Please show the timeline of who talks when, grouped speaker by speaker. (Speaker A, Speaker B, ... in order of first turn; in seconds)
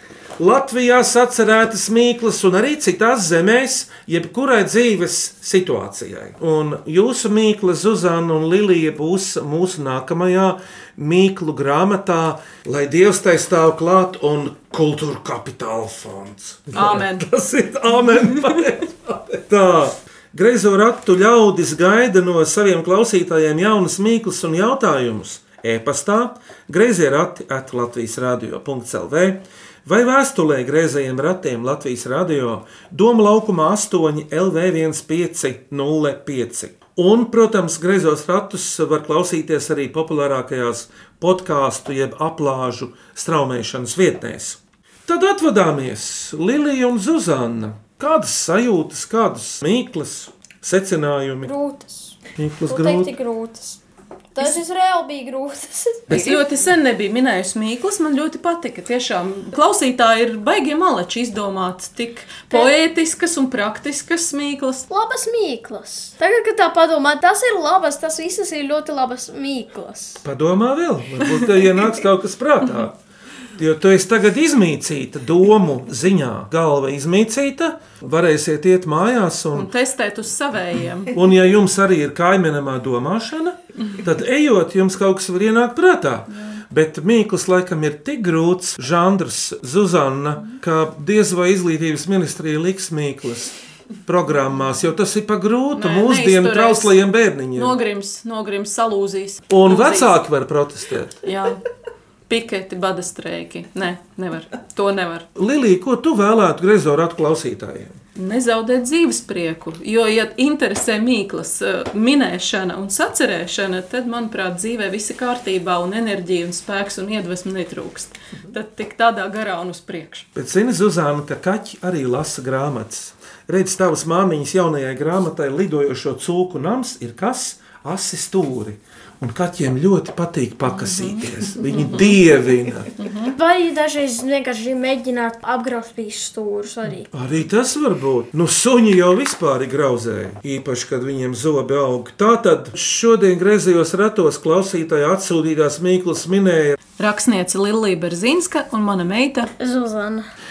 Speaker A: 0.4-51.5, 52.4-53.1, 56.1-56.3, 70.2-73.0, 73.5-79.7, 81.1-93.5, 94.0-97.8, 99.5-101.2, 105.3-107.9, 120.3-132.9, 137.1-146.8
Speaker B: 16.7-17.2, 56.1-64.8, 79.5-81.2, 95.7-96.9, 97.5-100.2, 101.2-101.6, 102.3-105.2, 108.2-120.2, 130.7-132.1, 133.0-133.3, 147.0-149.5
Speaker C: 51.4-53.8, 54.3-56.4, 64.9-70.2, 133.3-137.1, 149.6-150.3